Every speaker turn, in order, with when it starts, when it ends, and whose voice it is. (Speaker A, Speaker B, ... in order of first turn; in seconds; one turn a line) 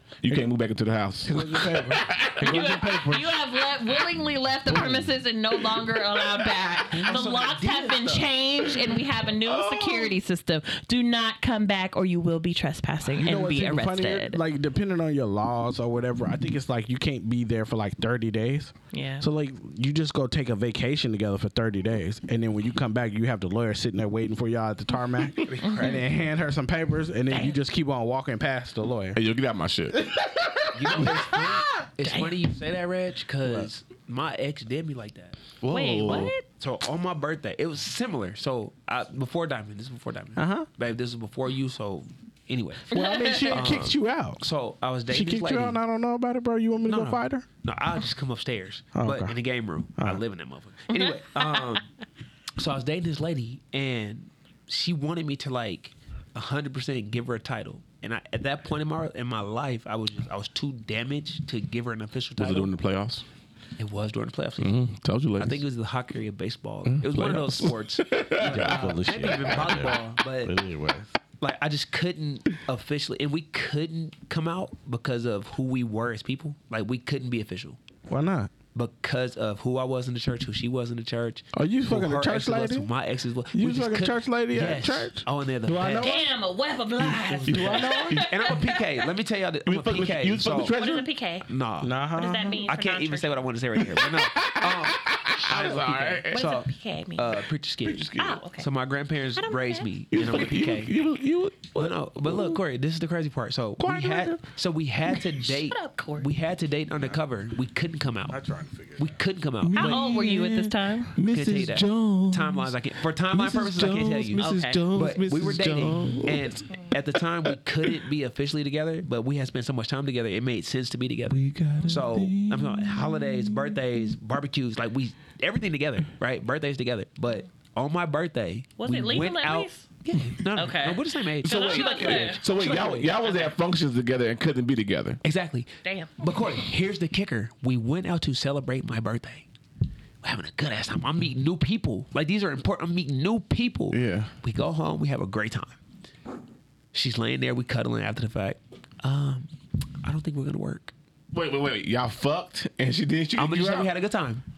Speaker A: 0.2-2.7
Speaker B: 1.2-3.4
Speaker C: 2.4-14.4
Speaker B: 4.7-5.1
Speaker D: 6.9-8.3
Speaker B: 6.9-7.2
Speaker A: 9.4-10.1
Speaker B: 13.0-29.2
Speaker C: 18.9-19.3
Speaker D: 25.4-26.1
Speaker C: 25.7-26.0
Speaker C: 27.3-27.6
Speaker A: 29.1-31.4
Speaker D: 30.7-35.4
Speaker B: 30.9-31.5
Speaker C: 32.0-32.3
Speaker B: 33.4-33.7
Speaker A: 35.6-36.3
Speaker C: 35.7-36.4
Speaker D: 36.1-42.9
Speaker B: 40.4-40.7
Speaker B: 42.9-44.4
Speaker C: 42.9-43.6
Speaker D: 43.5-45.8
Speaker B: 45.1-47.5
Speaker D: 46.9-51.9
Speaker B: 49.0-49.4
Speaker B: 50.0-50.2
Speaker C: 50.9-51.6
Speaker D: 52.6-62.7
Speaker A: 62.4-63.2
Speaker D: 63.8-64.8
Speaker A: 64.6-65.6
Speaker D: 65.4-70.5
Speaker A: 66.9-69.8
Speaker B: 68.4-71.2
Speaker D: 71.4-77.8
Speaker B: 78.1-78.5
Speaker D: 78.8-86.2
Speaker B: 81.5-82.9
Speaker B: 83.5-86.2
Speaker C: 86.0-89.0
Speaker D: 87.0-90.8
Speaker B: 87.5-88.2
Speaker A: 87.5-88.3
Speaker A: 89.7-91.1
Speaker C: 90.7-91.5
Speaker D: 91.5-92.0
Speaker B: 91.8-92.7
Speaker C: 92.1-93.4
Speaker D: 92.5-101.0
Speaker A: 93.8-96.4
Speaker C: 96.3-97.4
Speaker A: 97.8-98.4
Speaker C: 98.2-98.7
Speaker C: 99.4-99.9
Speaker A: 100.1-102.6
Speaker D: 101.8-108.4
Speaker A: 103.8-104.4
Speaker C: 105.7-106.3
Speaker B: 108.3-109.2
Speaker D: 109.0-110.0
Speaker A: 109.6-112.7
Speaker C: 109.8-111.2
Speaker D: 111.3-133.4
Speaker A: 113.3-116.6
Speaker C: 114.4-114.8
Speaker A: 121.3-123.8
Speaker C: 128.8-129.9
Speaker C: 130.6-132.4
Speaker A: 131.4-135.2
Speaker D: 135.2-139.5
Speaker C: 135.8-136.1
Speaker D: 140.2-145.8
Speaker A: 143.9-144.3
Speaker D: 146.9-149.5
Speaker D: 150.0-150.9
Speaker A: 151.3-153.9
Speaker D: 153.4-154.4